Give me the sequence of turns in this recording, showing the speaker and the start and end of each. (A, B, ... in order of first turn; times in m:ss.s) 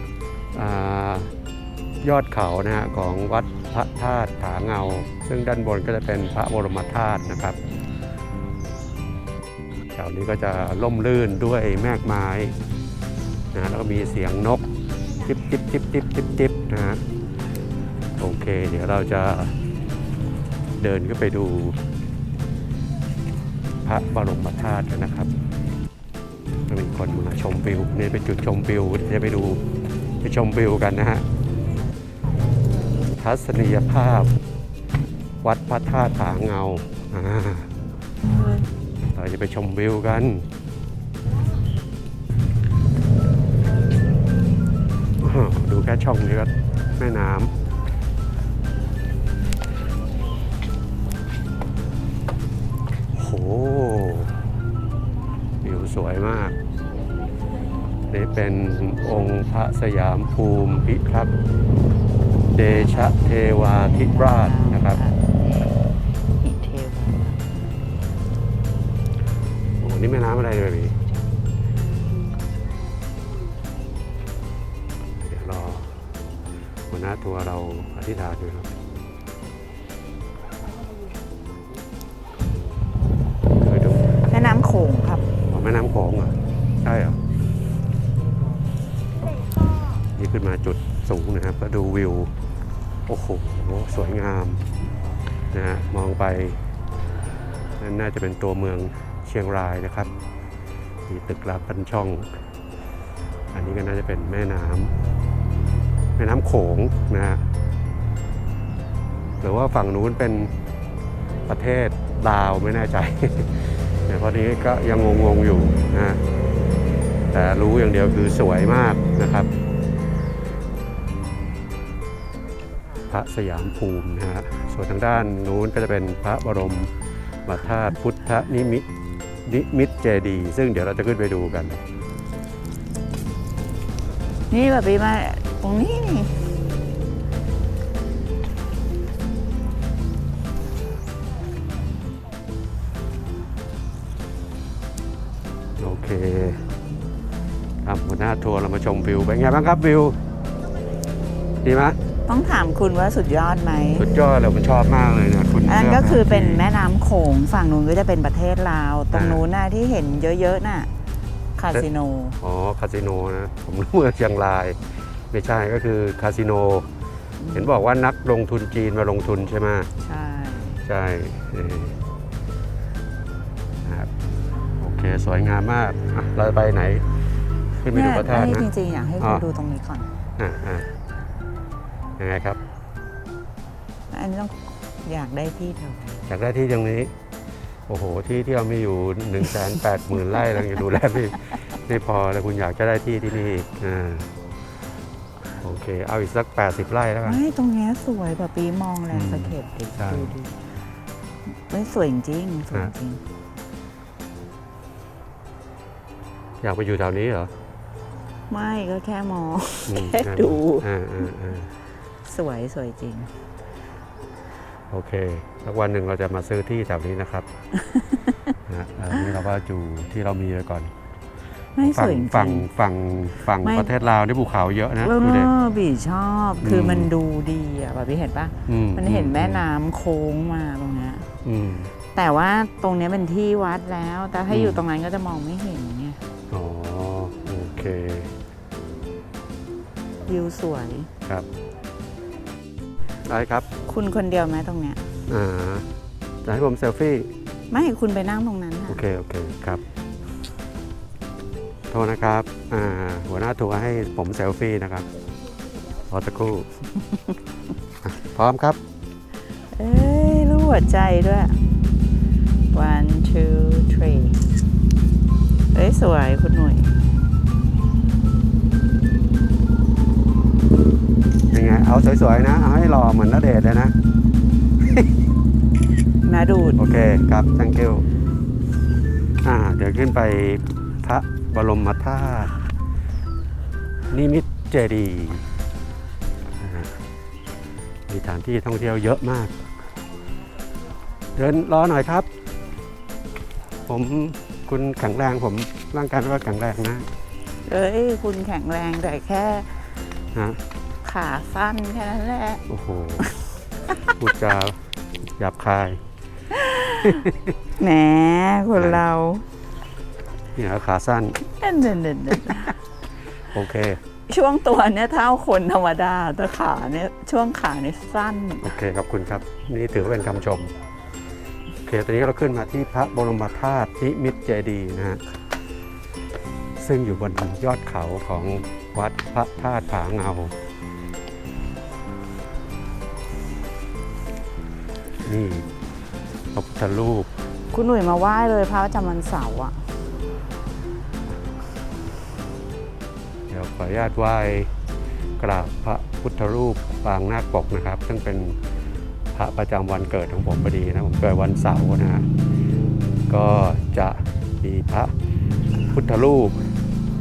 0:00.5-0:01.3 A
0:02.0-0:07.6 A
0:09.9-0:12.6 A
0:13.5-0:14.6 A
0:15.2-0:17.0 A
0:18.2-0:19.6 A
0:20.8-0:21.8 A
0:23.8-0:25.3 A
0:26.7-0:29.6 A
0:30.2-0:31.2 A
0:33.1-0:34.3 A
0:35.4-0:37.7 A
0:39.1-0:40.5 A
0:45.2-0:47.5 A
0:53.1-0:54.5 A
0:55.6-0:56.6 A
0:58.1-1:01.3 A
1:02.5-1:05.0 A
1:02.6-1:05.8 B
1:06.4-1:07.5 B
1:09.8-1:11.0 A
1:15.2-1:16.0 A
1:16.9-1:18.7 A
1:23.5-1:24.2 A
1:24.2-1:25.3 B
1:25.5-1:27.2 A
1:30.1-1:32.3 A
1:33.1-1:34.7 A
1:35.5-1:36.7 A
1:37.8-1:40.1 A
1:41.1-1:42.3 A
1:43.5-1:44.9 A
1:46.2-1:47.5 A
1:49.4-1:50.5 A
1:51.5-1:56.2 A
1:57.3-1:59.5 A
2:03.1-2:06.9 A
2:07.4-2:08.8 A
2:09.4-2:11.8 A
2:14.5-2:16.5 B
2:25.8-2:26.7 A
2:27.8-2:30.2 A
2:31.6-2:32.0 A
2:32.3-2:34.0 B
2:34.0-2:36.6 A
2:35.6-2:40.9 B
2:39.1-2:39.4 A
2:41.6-2:42.4 B
2:42.4-2:46.9 A
2:47.4-2:47.9 B
2:47.5-2:49.9 A
2:50.0-2:50.8 B
2:50.8-2:52.0 A
2:53.8-2:54.1 A
2:54.8-2:58.7 A
2:57.9-3:00.1 B
3:00.4-3:00.9 A
3:02.2-3:02.6 A
3:04.1-3:06.3 B
3:06.3-3:07.1 A
3:07.9-3:14.3 A
3:15.6-3:17.4 A
3:17.2-3:20.6 B
3:19.1-3:20.3 A
3:21.6-3:23.2 B
3:26.6-3:27.5 A
3:28.5-3:30.9 B
3:29.8-3:31.7 A
3:32.2-3:33.3 B
3:34.9-3:37.5 A
3:37.8-3:38.4 B
3:38.6-3:40.9 A
3:41.8-3:42.7 B
3:41.8-3:45.5 A
3:43.6-3:43.9 B
3:45.0-3:51.3 B
3:46.6-3:47.1 A
3:48.7-3:49.6 A
3:51.4-3:51.9 A
3:52.1-3:56.2 B
3:54.5-3:54.8 A
3:56.5-3:58.4 A
4:00.2-4:01.1 B
4:03.2-4:03.7 A
4:03.8-4:05.0 B
4:05.3-4:05.9 A
4:06.4-4:07.3 A
4:07.7-4:09.0 B
4:08.9-4:09.8 A
4:11.9-4:15.1 A
4:16.1-4:16.7 A
4:17.1-4:17.3 B
4:18.0-4:18.8 A
4:19.7-4:21.6 B
4:22.7-4:24.4 B
4:25.7-4:26.9 B
4:31.5-4:33.9 A
4:36.2-4:36.8 B
4:36.7-4:38.1 A
4:39.4-4:42.6 A
4:44.1-4:45.5 A
4:46.6-4:47.0 A
4:48.1-4:49.5 A
4:51.3-4:52.3 A
4:53.9-4:57.1 A
4:57.6-5:00.0 B
5:00.3-5:00.6 A
5:01.0-5:02.6 B
5:02.7-5:03.3 A
5:04.0-5:04.8 A
5:05.4-5:06.0 A
5:06.5-5:07.3 B
5:07.2-5:07.5 A
5:07.8-5:09.4 B
5:08.8-5:09.0 A
5:10.6-5:11.4 A
5:11.4-5:12.8 B
5:13.5-5:14.0 A
5:14.3-5:18.8 B
5:18.6-5:20.7 A
5:21.8-5:25.2 A
5:26.8-5:30.5 A
5:35.2-5:35.7 A
5:36.5-5:37.3 A
5:37.7-5:39.9 B
5:43.5-5:44.7 A
5:45.4-5:48.6 A
5:49.3-5:52.2 A
5:53.3-5:55.1 A
5:55.9-5:56.6 A